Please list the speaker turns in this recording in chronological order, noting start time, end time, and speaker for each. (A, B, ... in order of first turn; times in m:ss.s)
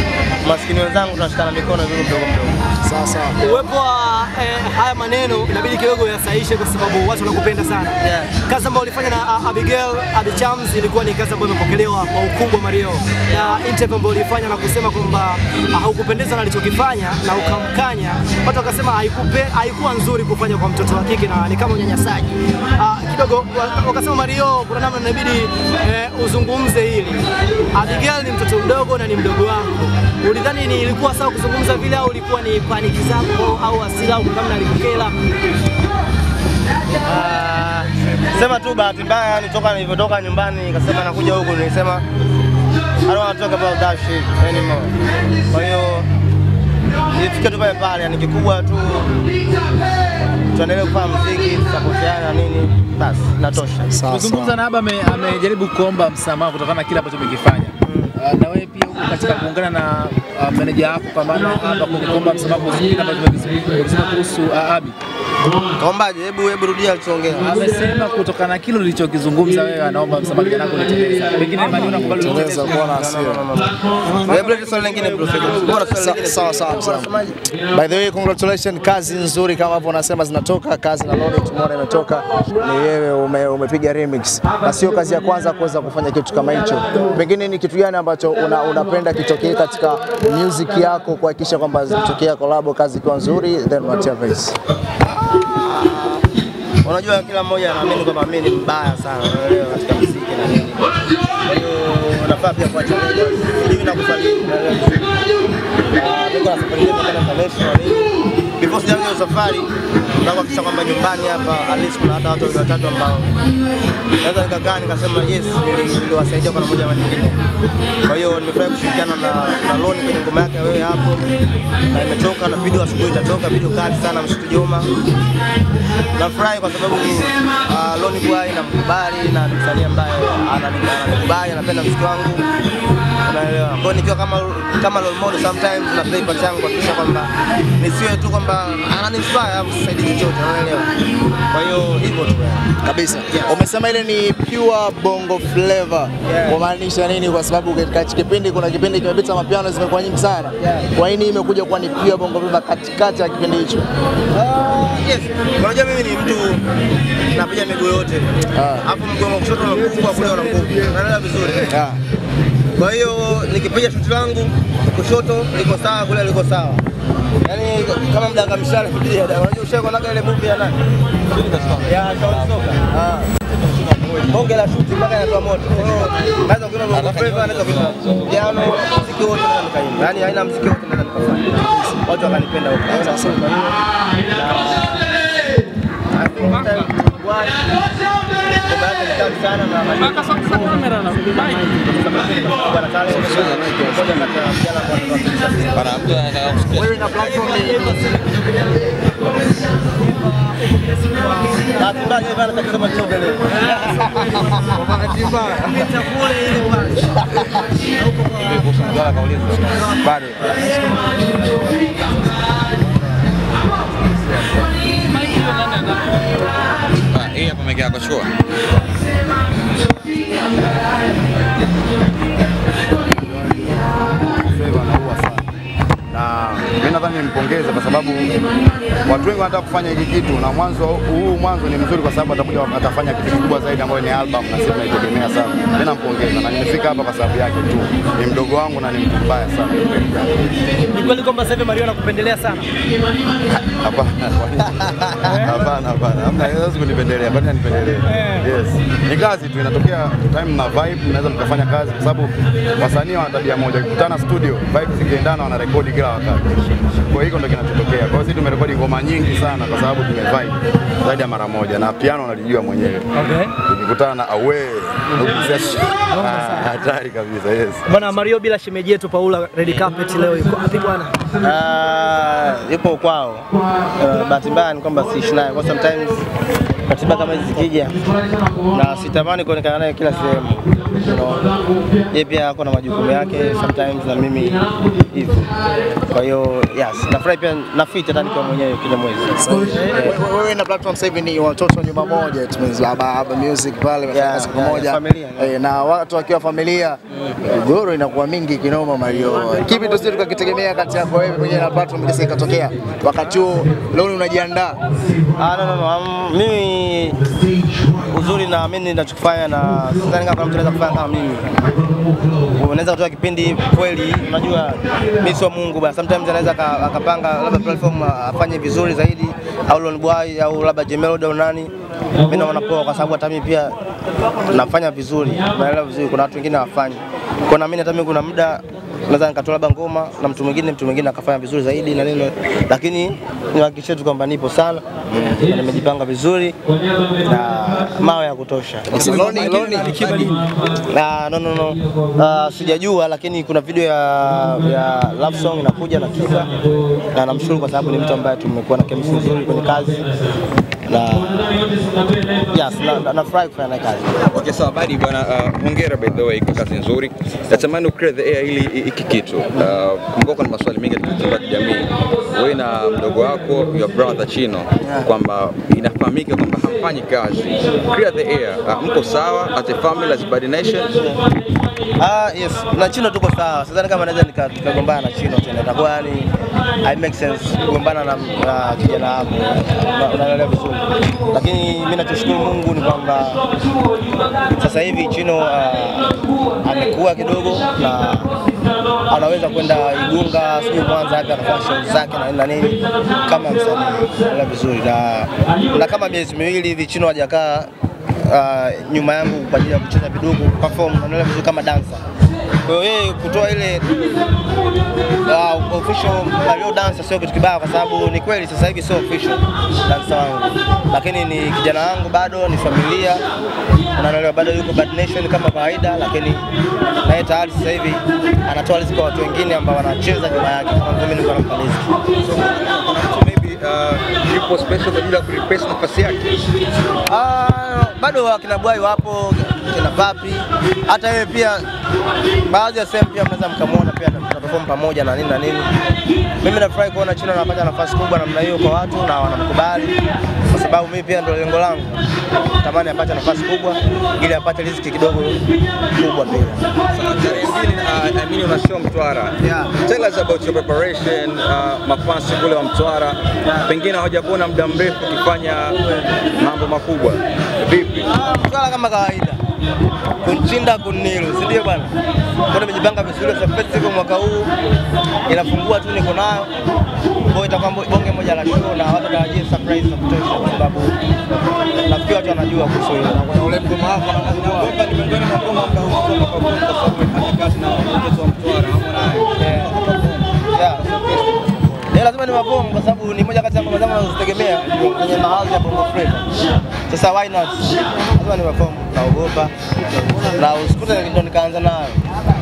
0:00.4-0:02.6 A
0:02.8-0:03.4 B
0:03.4-0:35.2 C
0:08.0-0:08.3 A
0:17.4-0:17.7 A
0:37.0-0:42.0 A
0:43.1-0:44.9 A
0:45.5-0:46.1 A
0:47.1-0:49.1 A
0:50.5-0:53.9 A
0:53.9-0:54.6 B
0:54.1-1:05.0 D
0:57.8-0:58.1 A
1:05.8-1:07.7 A
1:07.5-1:12.7 D
1:11.7-1:13.5 B
1:12.7-1:17.4 A
1:14.3-1:15.5 E
1:15.7-1:17.1 B
1:17.7-1:34.6 B
1:35.6-1:36.2 A
1:36.8-1:40.8 A
1:41.4-1:45.1 A
1:45.9-1:49.7 A
1:50.2-1:53.3 A
1:54.2-1:57.4 A
1:58.0-2:01.2 A
2:01.9-2:04.9 A
2:06.2-2:12.4 A
2:13.2-2:20.9 A
2:21.5-2:22.7 A
2:22.8-2:33.9 B
2:23.3-2:23.6 A
2:26.2-2:26.6 A
2:30.6-2:30.9 A
2:34.3-2:36.6 A
2:37.3-2:41.9 A
2:38.6-2:38.8 B
2:41.6-2:42.0 B
2:42.8-2:46.8 A
2:47.4-2:50.8 A
2:51.3-2:52.9 E
2:51.8-2:53.2 A
2:53.5-2:54.6 E
2:54.3-3:05.2 A
2:55.8-2:56.3 E
2:56.9-2:59.0 E
3:01.6-3:02.0 B
3:02.9-3:03.4 B
3:06.1-3:07.6 A
3:08.6-3:16.0 A
3:13.1-3:14.2 E
3:15.7-3:17.2 E
3:16.8-3:18.0 B
3:17.1-3:18.0 A
3:21.6-3:27.5 A
3:28.2-3:28.6 A
3:28.3-3:30.4 E
3:34.1-3:34.4 F
3:37.1-3:38.3 E
3:43.3-3:45.4 F
3:46.1-3:48.4 F
3:49.0-4:00.3 F
4:00.9-4:02.7 C
4:03.7-4:28.2 F
4:05.2-4:05.5 C
4:08.0-4:08.5 C
4:23.2-4:23.5 C
4:26.1-4:26.4 C
4:27.9-4:31.2 C
4:31.4-4:36.2 A
4:36.9-4:38.0 A
4:38.7-4:41.5 A
4:42.1-4:50.2 A
4:49.4-5:04.8 B
4:54.1-4:55.6 A
5:05.4-5:07.2 A
5:07.9-5:11.6 A
5:12.4-5:21.7 A
5:22.2-5:23.8 A
5:24.5-5:36.6 A
5:37.2-5:39.2 A
5:38.9-5:40.2 B
5:38.9-5:40.7 E
5:40.8-5:50.1 A
5:50.9-5:51.7 A
5:52.5-5:54.1 A
5:54.3-6:11.0 E
6:04.8-6:05.1 A
6:12.0-6:23.4 A
6:24.5-6:28.3 A
6:29.1-6:37.7 A
6:38.2-6:42.0 A
6:42.7-6:43.9 A
6:45.2-6:53.2 A
6:54.0-6:56.4 A
6:57.0-7:01.9 A
7:02.2-7:06.2 E
7:07.1-7:11.6 A
7:12.5-7:15.7 A
7:16.4-7:20.0 A
7:20.5-7:22.0 A
7:22.6-7:25.4 A
7:25.9-7:26.6 A
7:26.9-7:38.1 E
7:29.4-7:29.7 A
7:33.4-7:33.7 A
7:38.1-7:39.4 A
7:40.2-7:41.9 A
7:42.5-7:44.5 A
7:45.3-7:46.5 A
7:47.3-7:50.9 A
7:51.8-7:53.7 A
7:53.7-8:01.9 E
7:59.4-7:59.7 A
8:00.5-8:00.9 A
8:01.9-8:06.3 A
8:04.6-8:05.2 E
8:06.9-8:09.5 A
8:10.3-8:12.0 A